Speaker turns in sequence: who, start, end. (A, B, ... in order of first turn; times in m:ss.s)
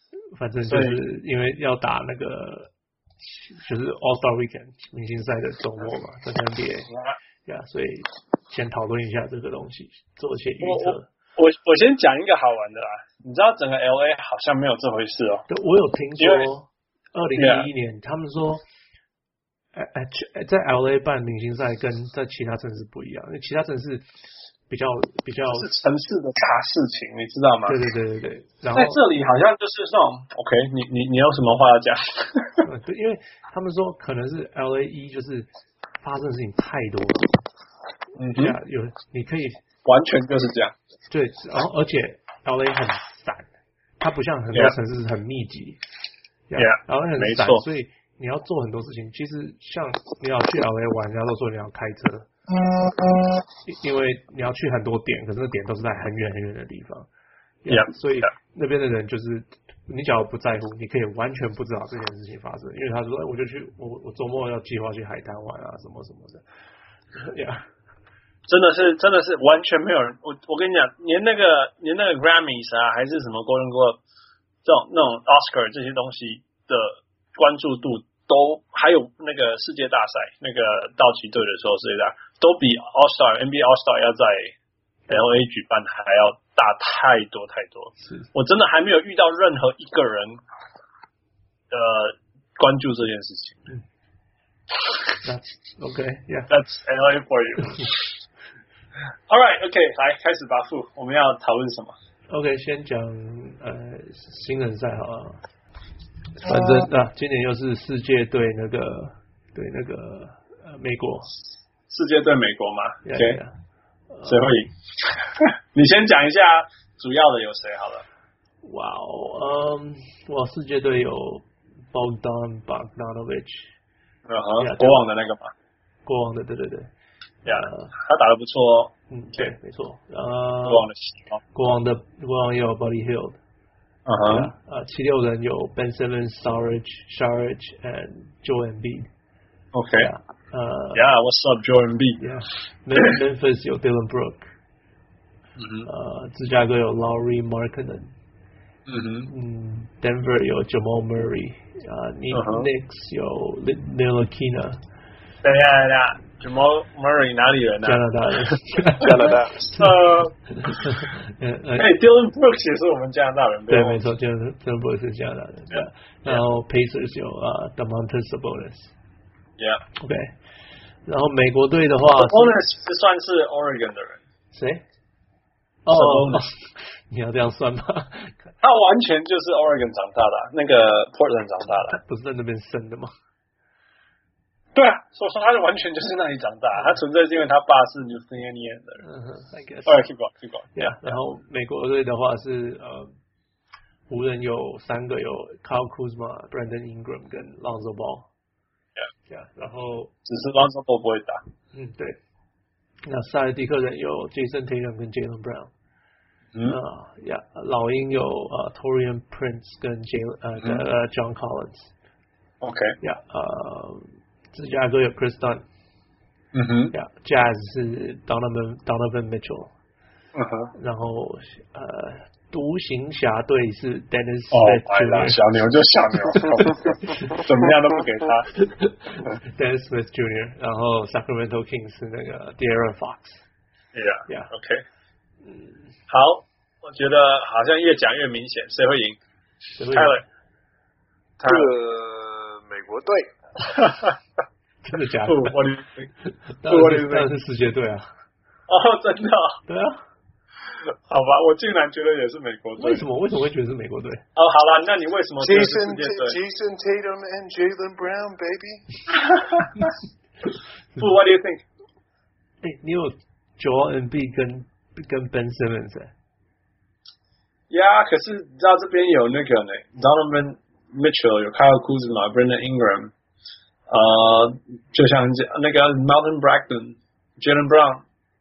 0:00.3-0:02.7 A
0:00.7-0:01.0 B
0:03.3-0:06.9 A
0:06.9-0:07.2 B
0:07.4-0:11.1 A
0:10.6-0:15.4 B
0:15.5-0:18.6 A
0:16.2-0:16.5 B
0:17.4-0:17.7 B
0:19.7-0:24.0 A
0:24.7-0:25.7 A
0:25.5-0:27.8 B
0:27.7-0:29.0 A
0:28.8-0:32.6 B
0:32.6-0:35.5 A
0:36.0-0:37.4 A
0:38.2-0:38.6 B
0:38.4-0:39.6 A
0:39.8-0:40.7 B
0:41.1-0:43.5 A
0:44.0-0:45.8 A
0:46.5-0:52.3 A
0:46.6-0:47.6 B
0:53.7-0:57.1 A
0:57.6-1:06.4 A
0:57.7-0:58.3 B
1:07.2-1:07.7 A
1:08.5-1:14.0 B
1:14.6-1:24.5 B
1:25.1-1:30.4 B
1:28.0-1:28.3 A
1:31.7-1:33.7 B
1:35.2-1:36.5 A
1:36.5-1:38.0 B
1:39.3-1:42.0 B
1:42.3-1:45.4 A
1:46.4-1:51.3 A
1:51.9-1:53.4 B
1:53.0-1:53.5 A
1:54.1-1:54.5 A
1:54.3-1:58.0 B
1:58.6-2:03.7 A
2:04.3-2:05.5 B
2:04.6-2:05.0 A
2:06.0-2:06.9 A
2:07.4-2:09.5 B
2:07.5-2:07.9 A
2:09.1-2:10.9 A
2:10.6-2:11.4 B
2:11.5-2:13.4 A
2:14.0-2:14.5 B
2:14.2-2:19.1 A
2:19.7-2:20.1 B
2:20.0-2:21.0 A
2:20.9-2:22.2 B
2:22.2-2:24.5 A
2:25.6-2:25.9 B
2:25.8-2:28.1 A
2:28.9-2:29.3 B
2:29.3-2:34.8 A
2:32.3-2:32.7 B
2:35.4-2:38.0 B
2:37.8-2:40.0 A
2:38.7-2:39.1 B
2:39.0-2:39.7 C
2:39.7-2:40.8 B
2:40.5-2:41.9 A
2:41.8-2:44.0 B
2:43.7-2:48.9 A
2:45.7-2:46.4 B
2:50.0-2:50.3 A
2:51.0-2:52.6 A
2:52.2-2:54.2 B
2:54.5-2:54.8 A
2:55.8-2:58.5 A
2:55.9-2:56.5 B
2:58.6-3:02.0 B
3:01.7-3:03.1 A
3:04.8-3:09.0 B
3:09.0-3:10.0 A
3:09.8-3:11.2 B
3:10.8-3:13.1 A
3:14.1-3:18.3 A
3:19.3-3:20.1 A
3:20.2-3:21.4 B
3:21.7-3:22.2 A
3:23.0-3:25.7 A
3:26.6-3:31.9 A
3:32.6-3:33.0 B
3:33.0-3:35.6 A
3:36.5-3:36.9 B
3:36.9-3:39.7 A
3:40.3-3:40.7 B
3:40.8-3:45.4 A
3:44.5-3:48.5 B
3:46.3-3:47.4 A
3:48.5-3:53.4 A
3:53.9-3:54.8 B
3:55.4-3:55.7 A
3:56.1-3:59.2 B
3:59.8-4:00.2 A
3:59.9-4:00.2 B
4:01.4-4:01.7 B
4:01.4-4:03.3 C
4:03.7-4:04.1 B
4:04.8-4:05.6 A
4:05.2-4:06.1 B
4:06.2-4:08.1 A
4:06.7-4:07.3 B
4:08.7-4:09.6 B
4:09.7-4:10.0 A
4:11.1-4:13.1 B
4:12.8-4:14.2 A
4:14.4-4:16.4 B
4:15.4-4:18.8 C
4:19.3-4:19.7 B
4:21.0-4:21.6 B
4:22.6-4:26.1 A
4:27.7-4:33.1 B
4:33.9-4:38.0 B